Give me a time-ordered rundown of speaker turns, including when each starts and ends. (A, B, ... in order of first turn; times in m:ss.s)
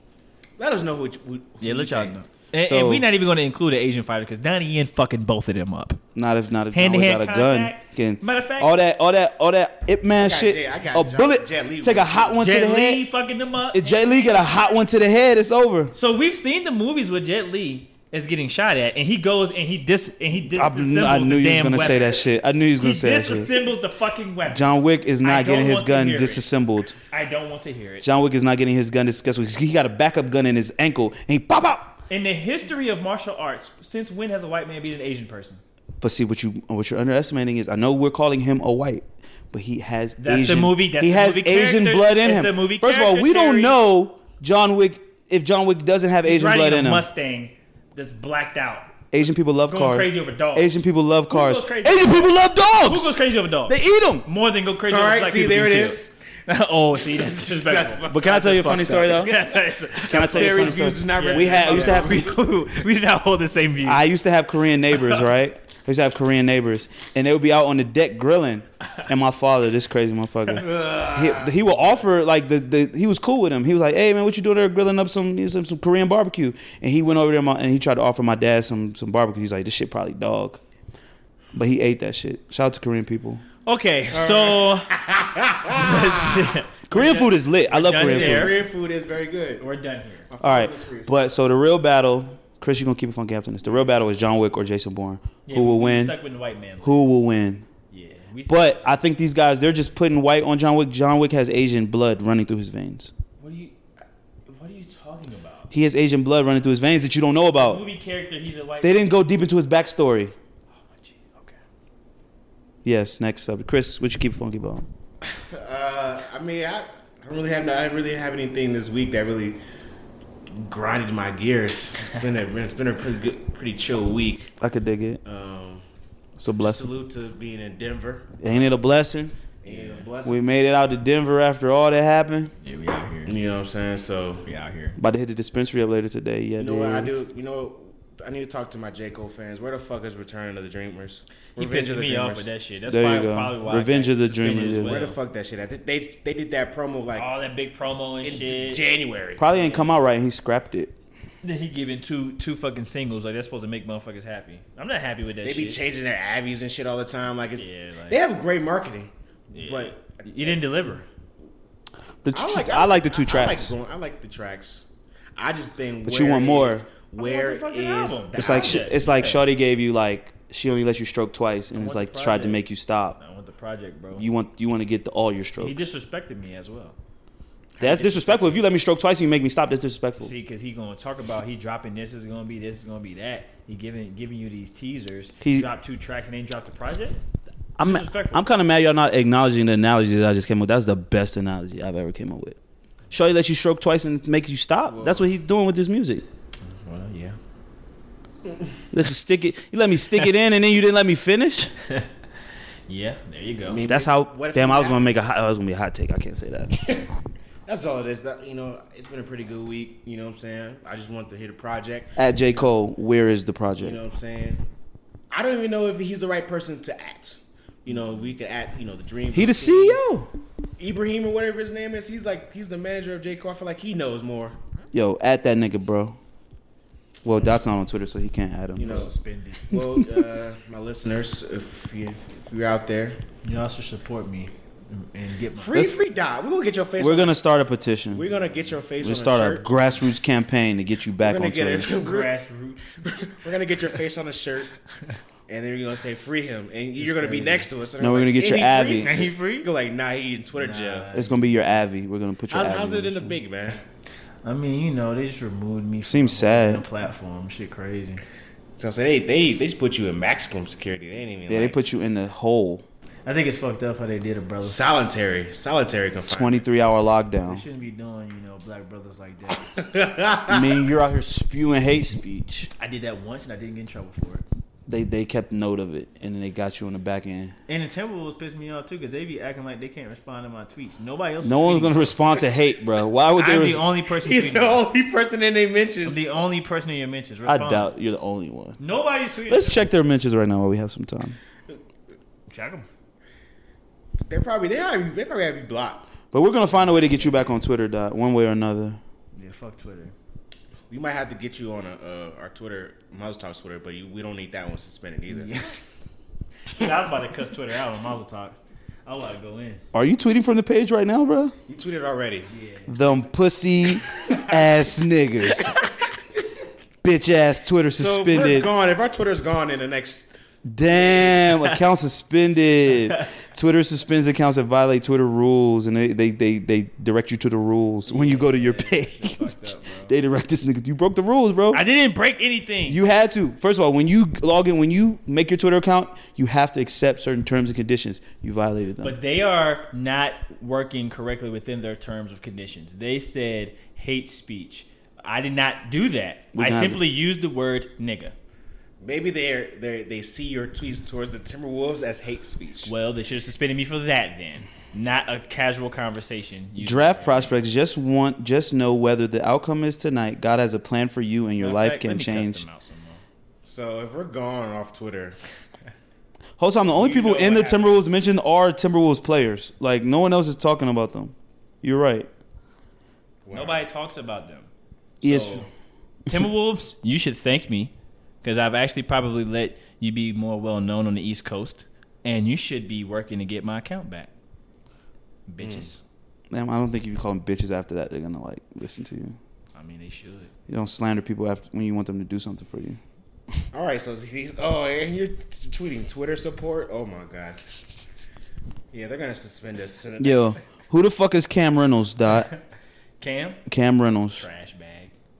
0:00.6-0:02.2 A
0:01.6-0:06.0 B
0:02.6-0:03.1 C
0:06.1-0:13.0 C
0:06.7-0:08.7 B
0:10.1-0:12.4 A
0:12.4-0:14.7 B
0:13.7-0:15.9 C
0:15.9-0:22.2 B
0:20.5-0:23.6 C
0:22.8-0:26.5 B
0:24.5-0:27.0 C
0:27.1-0:28.1 B
0:28.0-0:32.0 C
0:32.1-0:35.6 B
0:36.0-0:47.0 C
0:40.2-0:43.8 B
0:46.2-0:48.9 B
0:49.1-0:54.3 C
0:49.7-0:50.7 B
0:51.3-1:04.1 B
0:54.9-0:56.2 A
0:57.0-1:02.4 A
0:58.1-0:59.3 C
1:00.1-1:02.3 C
1:03.8-1:20.6 C
1:04.9-1:05.2 B
1:10.6-1:12.0 A
1:21.5-1:23.4 C
1:23.6-1:24.9 B
1:24.1-1:26.6 A
1:25.7-1:28.6 B
1:26.9-1:28.6 C
1:27.9-1:29.6 A
1:29.6-1:30.3 B
1:30.3-1:31.2 A
1:30.4-1:36.1 C
1:35.4-1:37.0 B
1:36.8-1:37.6 C
1:37.9-1:38.9 B
1:38.5-1:43.1 C
1:43.4-1:43.8 B
1:44.5-1:45.7 B
1:45.7-1:47.8 C
1:47.6-1:49.1 B
1:48.8-1:50.3 C
1:50.7-1:51.6 B
1:52.8-1:54.8 C
1:55.2-1:59.6 A
2:00.5-2:04.5 A
2:04.6-2:05.2 C
2:05.2-2:05.8 A
2:06.4-2:06.9 C
2:06.6-2:08.4 A
2:08.4-2:09.4 C
2:09.6-2:10.4 A
2:09.6-2:10.0 B
2:10.2-2:12.5 C
2:12.6-2:13.4 B
2:13.2-2:14.4 A
2:14.4-2:15.0 B
2:15.0-2:17.1 C
2:16.6-2:22.4 A
2:21.6-2:25.2 B
2:22.9-2:25.0 C
2:24.6-2:27.3 A
2:27.2-2:28.8 B
2:28.2-2:29.7 A
2:29.4-2:30.9 C
2:31.4-2:35.8 B
2:35.4-2:41.0 A
2:37.6-2:38.2 B
2:39.5-2:41.0 B
2:42.2-2:43.8 C
2:42.3-2:49.0 A
2:46.0-2:46.8 C
2:47.2-2:49.4 B
2:48.4-2:53.2 C
2:51.7-2:52.6 B
2:53.2-2:54.2 B
2:54.1-2:55.8 C
2:55.6-2:57.0 B
2:57.8-2:58.6 B
2:57.8-3:00.3 C
3:00.2-3:07.2 B
3:05.4-3:05.7 C
3:07.8-3:12.6 C
3:07.8-3:08.4 B
3:13.1-3:16.2 C
3:14.9-3:15.3 A
3:16.7-3:17.4 B
3:18.4-3:18.7 A
3:18.9-3:21.7 C
3:22.9-3:23.8 B
3:23.7-3:25.1 A
3:23.8-3:26.9 C
3:27.6-3:32.7 A
3:32.2-3:34.0 C
3:33.8-3:34.6 A
3:35.3-3:40.0 A
3:39.3-3:40.3 C
3:40.8-3:44.7 A
3:44.9-3:46.2 C
3:47.2-3:49.1 C
3:48.8-3:53.2 A
3:48.8-3:49.8 B
3:49.7-3:50.1 C
3:53.4-3:55.8 B
3:55.6-3:57.4 A
3:57.0-3:58.3 C
3:58.1-3:59.7 A
3:59.0-4:01.9 C
4:01.2-4:02.3 A
4:02.0-4:03.0 B
4:03.0-4:04.7 A
4:05.5-4:11.1 A
4:07.0-4:07.7 B
4:08.0-4:09.1 C
4:09.0-4:09.7 B
4:10.6-4:11.4 B
4:11.1-4:13.4 C
4:12.5-4:13.8 A
4:14.4-4:18.2 B
4:16.0-4:16.8 C
4:18.8-4:21.8 A
4:21.5-4:22.8 C
4:23.2-4:24.8 B
4:24.6-4:26.6 A
4:26.3-4:27.6 C
4:27.4-4:29.7 B
4:29.6-4:30.7 A
4:30.5-4:32.7 C
4:32.8-4:34.4 B
4:34.9-4:37.6 C
4:37.7-4:42.2 B
4:41.4-4:43.8 C
4:43.4-4:44.8 B
4:44.1-4:46.3 A
4:46.0-4:47.9 B
4:47.4-4:48.8 C
4:48.8-4:49.8 B
4:49.5-4:51.4 C
4:52.5-4:52.9 B
4:54.3-4:56.1 A
4:56.3-4:59.0 C
4:56.8-4:57.6 B
4:59.3-5:00.1 B
5:00.9-5:05.6 A
5:05.3-5:05.8 B
5:06.7-5:09.8 B
5:09.9-5:11.5 C
5:11.7-5:12.5 A
5:12.5-5:13.0 B
5:12.9-5:15.8 C
5:17.0-5:18.7 C
5:17.9-5:20.3 A
5:20.6-5:29.5 C
5:20.9-5:21.4 A
5:28.0-5:30.1 B
5:30.1-5:31.8 C
5:31.7-5:33.0 B
5:32.9-5:39.2 C
5:39.0-5:48.3 B
5:46.5-5:47.0 C
5:49.0-5:52.9 A
5:52.8-5:57.6 B
5:56.8-6:02.6 C
6:01.6-6:03.2 B
6:03.6-6:05.4 A
6:06.6-6:12.3 C
6:06.9-6:08.0 A
6:13.4-6:13.8 A
6:13.5-6:14.7 B
6:15.2-6:15.7 C
6:15.2-6:15.7 B
6:16.3-6:24.3 B
6:25.5-6:26.0 B
6:25.6-6:25.9 A
6:26.5-6:29.4 C
6:29.7-6:30.5 B
6:30.7-6:33.0 C
6:33.7-6:37.8 A
6:38.9-6:40.6 A
6:40.2-6:42.5 C
6:43.2-6:43.6 B
6:43.6-6:44.4 C
6:44.3-6:45.1 B